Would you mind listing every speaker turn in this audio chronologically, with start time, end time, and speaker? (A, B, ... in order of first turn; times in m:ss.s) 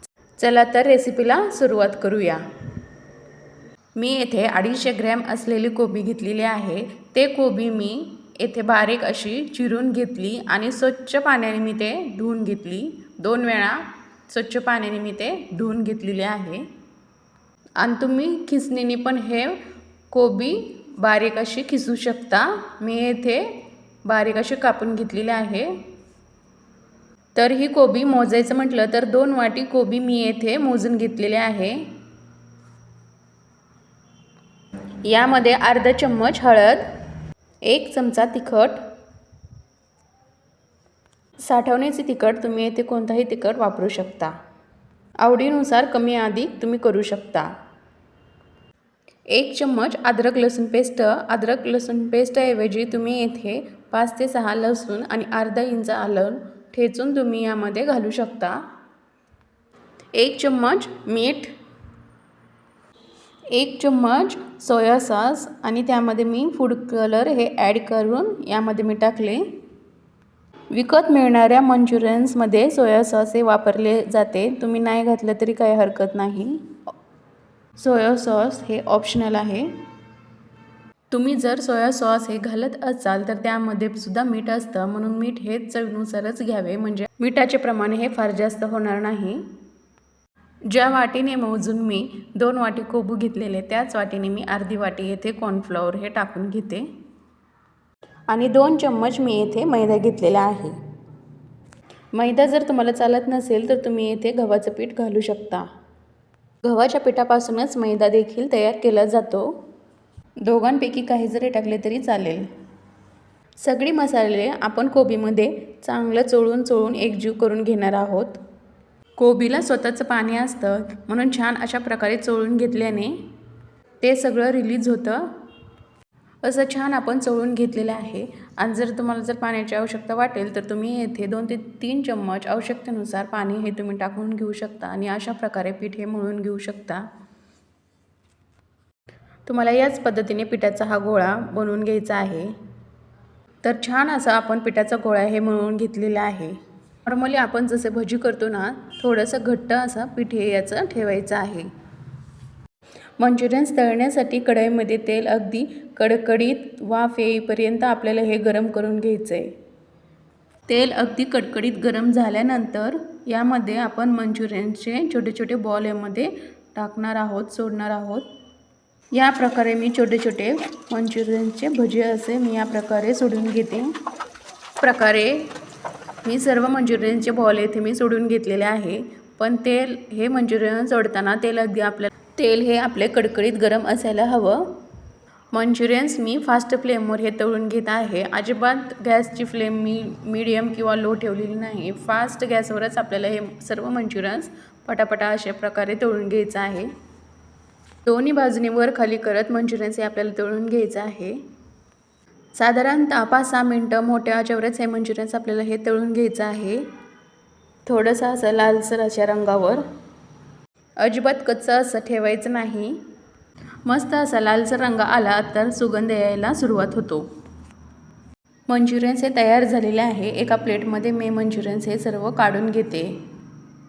0:00.4-0:02.4 A
0:04.0-0:16.7 A
0:17.8-0:25.8 A
0:27.4-0:31.9 A
0:35.0-0:36.8 A
0:37.6-0:38.8 A
0:41.4-0:44.3 A
0:45.2-0:47.5 A
0:49.3-0:58.6 A
1:00.2-1:01.5 A
1:03.5-1:09.5 A
1:10.7-1:16.8 A
1:17.8-1:19.7 A
1:21.1-1:29.5 A
1:30.7-1:36.9 A
1:38.3-1:40.8 A
1:42.1-1:45.7 A
1:46.6-1:49.6 A
1:50.4-1:52.5 A
1:53.6-1:58.4 A
1:59.2-2:03.2 A
2:04.0-2:05.3 A
2:06.4-2:17.1 A
2:19.5-2:22.5 A
2:23.6-2:31.7 A
2:33.2-2:39.5 A
2:40.7-2:48.3 A
2:49.1-2:53.9 A
2:54.8-2:55.5 A
2:56.2-3:04.8 A
3:05.5-3:16.9 A
3:18.1-3:21.4 A
3:22.6-3:26.9 A
3:27.9-3:29.8 A
3:31.0-3:33.0 A
3:33.8-3:37.3 A
3:38.7-3:43.2 A